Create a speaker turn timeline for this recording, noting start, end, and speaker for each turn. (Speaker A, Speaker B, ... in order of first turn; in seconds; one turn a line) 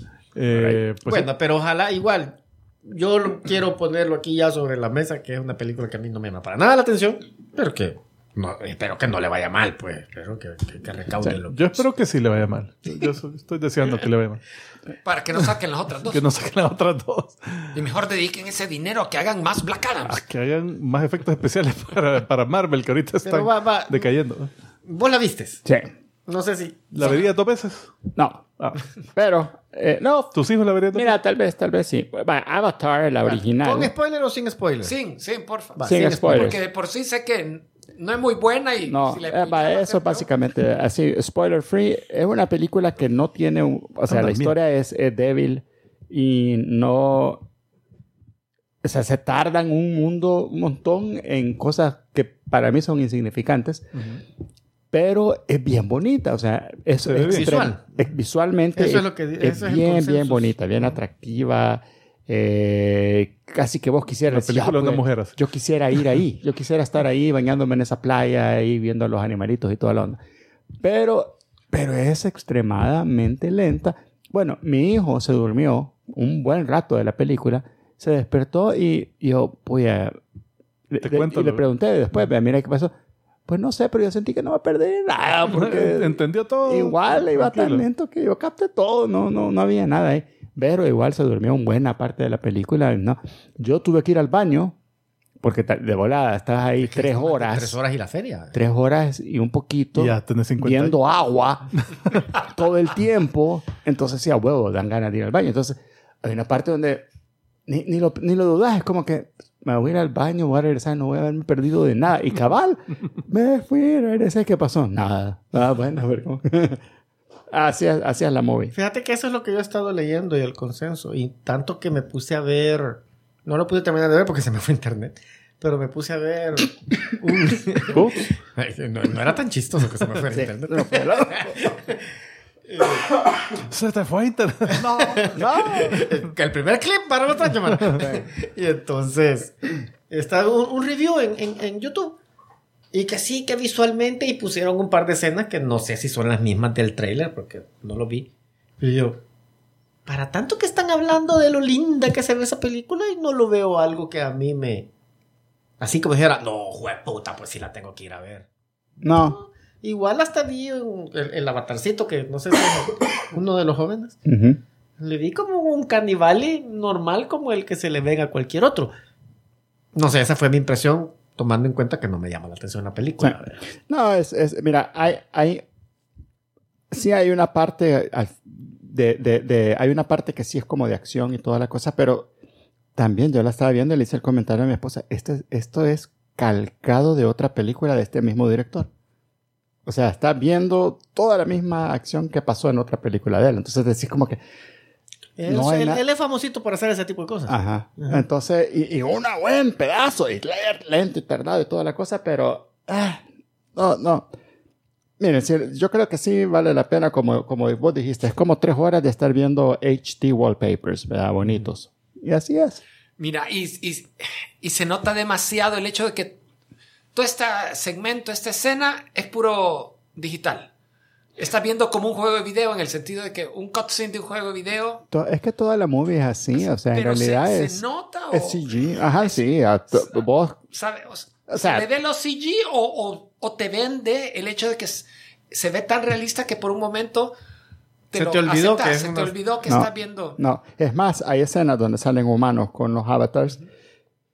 Speaker A: 0.3-1.3
Speaker B: 0.5-11.8
Speaker A: 11.2-14.4
Speaker C: 15.0-16.2
Speaker A: 16.1-17.8
Speaker C: 17.7-20.2
Speaker A: 20.1-24.5
Speaker B: 23.2-24.1
Speaker B: 24.9-25.6
Speaker D: 25.6-25.9
Speaker B: 26.3-27.2
Speaker A: 26.9-27.9
Speaker D: 28.1-28.4
Speaker D: 29.1-30.3
Speaker A: 30.3-31.1
Speaker D: 30.9-33.9
Speaker B: 33.2-34.9
Speaker C: 34.8-40.3
Speaker B: 35.8-36.6
Speaker D: 35.9-36.6
Speaker D: 38.9-47.4
Speaker A: 44.1-44.5
Speaker D: 48.8-53.9
Speaker A: 54.0-54.2
Speaker D: 54.9-70.2
Speaker A: 57.0-57.5
Speaker B: 57.2-58.0
Speaker B: 58.8-61.0
Speaker A: 64.3-65.4
Speaker D: 70.8-80.2
Speaker D: 80.9-82.9
Speaker A: 81.0-81.7
Speaker D: 83.5-94.8
Speaker A: 85.5-87.8
Speaker D: 95.4-97.8
Speaker B: 96.8-98.6
Speaker D: 98.5-107.0
Speaker A: 100.0-101.0
Speaker D: 107.7-116.8
Speaker D: 117.5-118.7
Speaker B: 118.7-132.1
Speaker A: 127.9-128.3
Speaker D: 130.3-131.6
Speaker B: 132.7-133.2
Speaker A: 133.6-135.5
Speaker B: 134.8-142.2
Speaker D: 135.3-136.1
Speaker A: 137.8-138.1
Speaker B: 142.9-149.2
Speaker B: 150.1-154.9
Speaker B: 155.8-158.5
Speaker B: 159.0-164.2
Speaker D: 159.0-159.4
Speaker D: 164.3-164.6
Speaker B: 165.0-168.9
Speaker B: 169.9-173.7
Speaker D: 173.9-175.6
Speaker D: 176.9-182.3
Speaker D: 183.0-188.9
Speaker D: 189.9-194.4
Speaker B: 195.4-198.2
Speaker D: 195.5-196.0
Speaker D: 197.5-203.2
Speaker D: 203.8-204.3
Speaker D: 205.2-212.8
Speaker C: 213.2-214.1
Speaker C: 214.6-216.4
Speaker C: 217.1-220.7
Speaker C: 221.4-225.0
Speaker D: 225.1-230.6
Speaker C: 226.9-230.1
Speaker C: 230.7-237.3
Speaker D: 231.5-231.9
Speaker C: 238.1-240.4
Speaker B: 238.2-239.4
Speaker D: 239.7-243.6